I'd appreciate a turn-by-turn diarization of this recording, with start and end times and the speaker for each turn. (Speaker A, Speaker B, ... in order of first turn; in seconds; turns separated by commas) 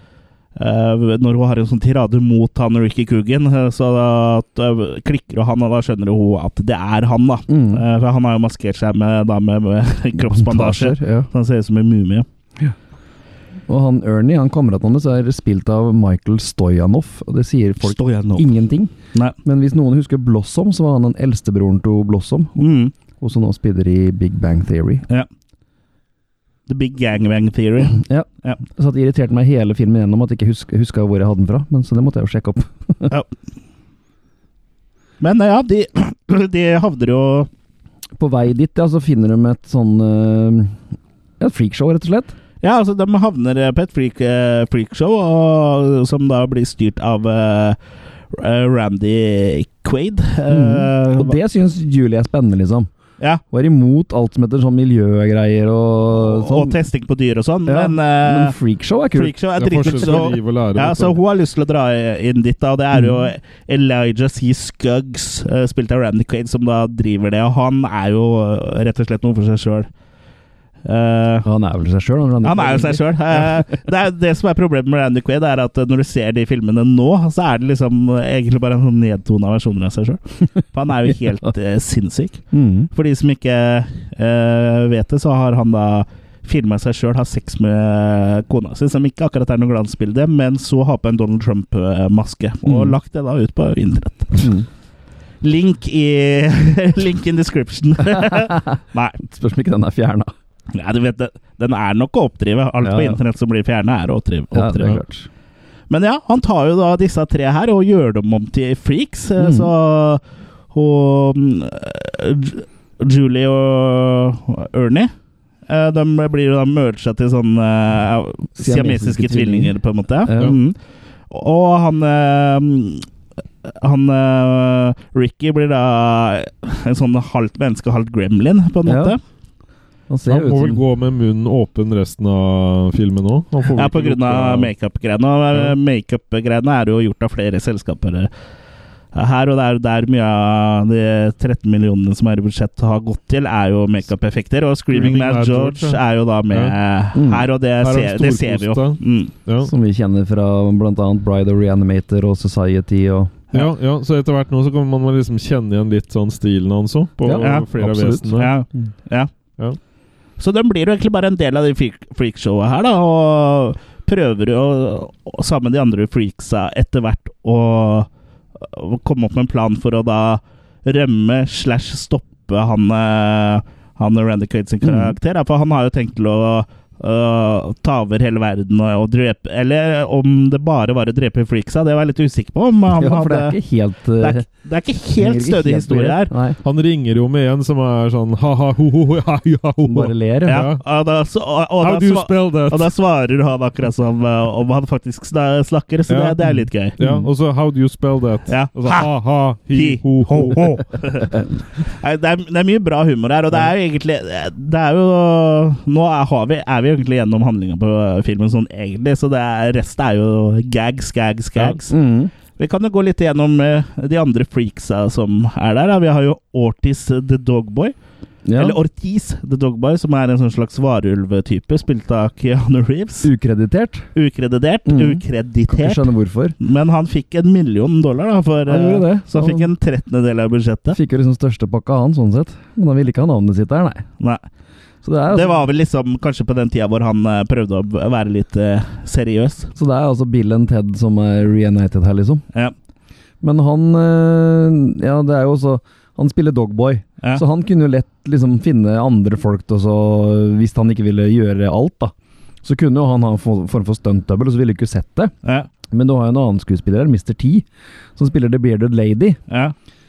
Speaker A: 0.6-12.2, Speaker B: 7.5-7.8, Speaker B: 10.2-11.3, Speaker B: 13.7-18.9, Speaker A: 17.8-18.5, Speaker B: 19.4-22.7, Speaker A: 22.6-22.9, Speaker B: 23.2-25.0, Speaker A: 26.7-28.6, Speaker B: 27.9-33.1, Speaker A: 35.2-37.5, Speaker B: 38.1-40.8, Speaker B: 41.4-42.3, Speaker A: 42.6-47.8, Speaker A: 48.3-51.4, Speaker B: 50.5-52.9, Speaker B: 53.5-56.8, Speaker A: 56.2-58.5, Speaker B: 57.6-59.3, Speaker A: 59.1-69.9, Speaker C: 59.5-61.2, Speaker B: 59.9-60.2, Speaker B: 62.9-63.2, Speaker A: 70.8-71.5, Speaker B: 71.4-73.6, Speaker A: 72.4-94.5, Speaker B: 82.5-82.9, Speaker B: 92.7-92.9, Speaker B: 94.4-94.7, Speaker A: 95.4-99.2, Speaker B: 98.1-100.3, Speaker A: 100.7-105.0, Speaker B: 102.8-103.2, Speaker B: 104.5-105.3, Speaker A: 105.9-115.1, Speaker B: 109.4-109.7, Speaker A: 115.7-120.8, Speaker B: 118.6-120.5, Speaker A: 121.3-123.1, Speaker A: 123.6-129.2, Speaker B: 128.8-129.1, Speaker B: 130.1-130.8, Speaker C: 130.3-134.7, Speaker A: 133.7-138.3, Speaker A: 139.1-149.3, Speaker C: 144.9-146.0, Speaker C: 146.5-146.8, Speaker B: 147.1-147.5, Speaker C: 147.8-149.7, Speaker B: 149.6-153.3, Speaker C: 153.5-158.5, Speaker B: 157.2-158.9, Speaker A: 157.4-157.7, Speaker A: 158.3-159.3, Speaker A: 160.4-183.6, Speaker B: 174.8-175.2, Speaker B: 182.9-184.5, Speaker A: 184.2-186.3, Speaker B: 185.2-186.6, Speaker C: 186.6-190.8, Speaker B: 189.8-190.7, Speaker A: 190.4-196.9, Speaker C: 191.8-192.9, Speaker C: 196.1-200.8, Speaker B: 197.0-197.3, Speaker A: 198.5-199.1, Speaker A: 199.7-201.3, Speaker A: 201.8-211.9, Speaker B: 211.6-212.3, Speaker A: 212.6-217.9, Speaker B: 218.4-218.8, Speaker A: 218.6-223.3, Speaker B: 223.2-224.1, Speaker A: 224.1-226.1, Speaker B: 224.8-226.5, Speaker A: 226.6-231.0, Speaker B: 228.7-229.7, Speaker B: 230.9-234.0, Speaker B: 235.0-235.6, Speaker A: 235.3-239.7, Speaker B: 239.8-242.4, Speaker B: 243.4-255.3, Speaker B: 255.9-259.4